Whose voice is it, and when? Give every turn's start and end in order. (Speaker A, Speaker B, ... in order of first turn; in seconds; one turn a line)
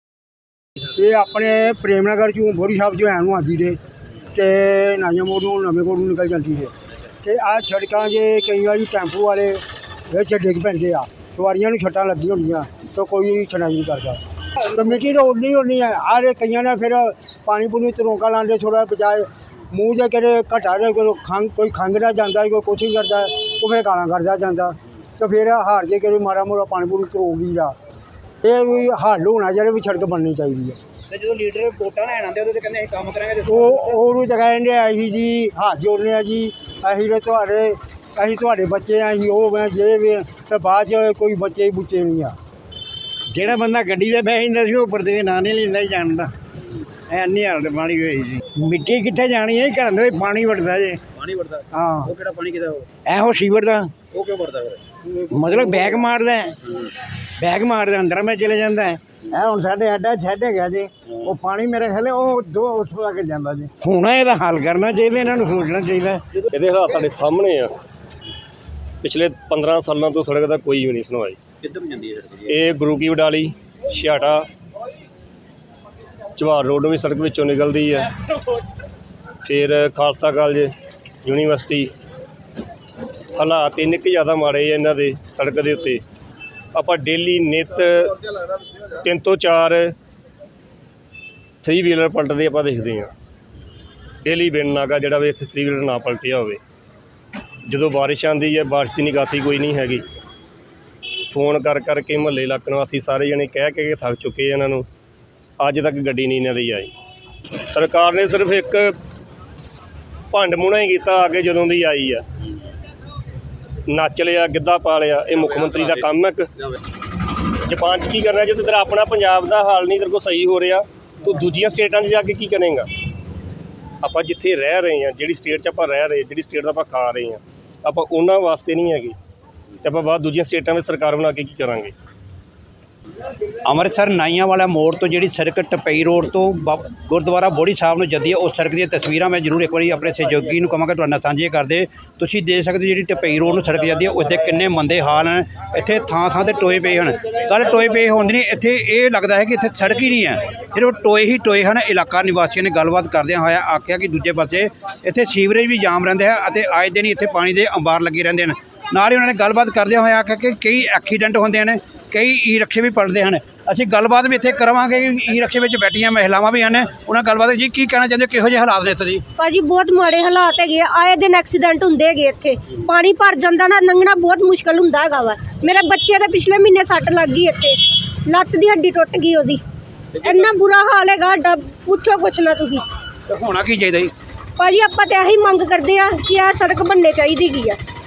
Speaker A: 0.9-3.8
Speaker A: 4.3-6.7
Speaker A: 7.2-27.7
Speaker A: 28.4-30.8
Speaker B: 31.1-33.4
Speaker A: 33.4-42.4
Speaker C: 43.3-46.3
Speaker C: 47.1-51.0
Speaker A: 51.7-52.1
Speaker C: 53.0-53.9
Speaker A: 55.1-55.8
Speaker C: 55.3-56.5
Speaker C: 57.4-66.2
Speaker D: 66.4-67.7
Speaker D: 69.0-71.4
Speaker D: 72.5-74.5
Speaker D: 76.4-78.1
Speaker D: 79.4-81.9
Speaker D: 83.3-86.0
Speaker D: 86.7-88.2
Speaker D: 89.0-89.9
Speaker D: 91.6-93.1
Speaker D: 94.2-96.6
Speaker D: 97.7-100.0
Speaker D: 101.3-104.8
Speaker D: 105.6-106.9
Speaker D: 107.7-109.0
Speaker D: 110.3-112.2
Speaker D: 113.9-116.5
Speaker D: 117.6-122.9
Speaker D: 124.0-129.2
Speaker D: 129.8-131.9
Speaker E: 133.6-169.2
Speaker F: 169.4-179.6
Speaker F: 180.2-182.9
Speaker E: 183.3-184.1
Speaker F: 184.6-187.8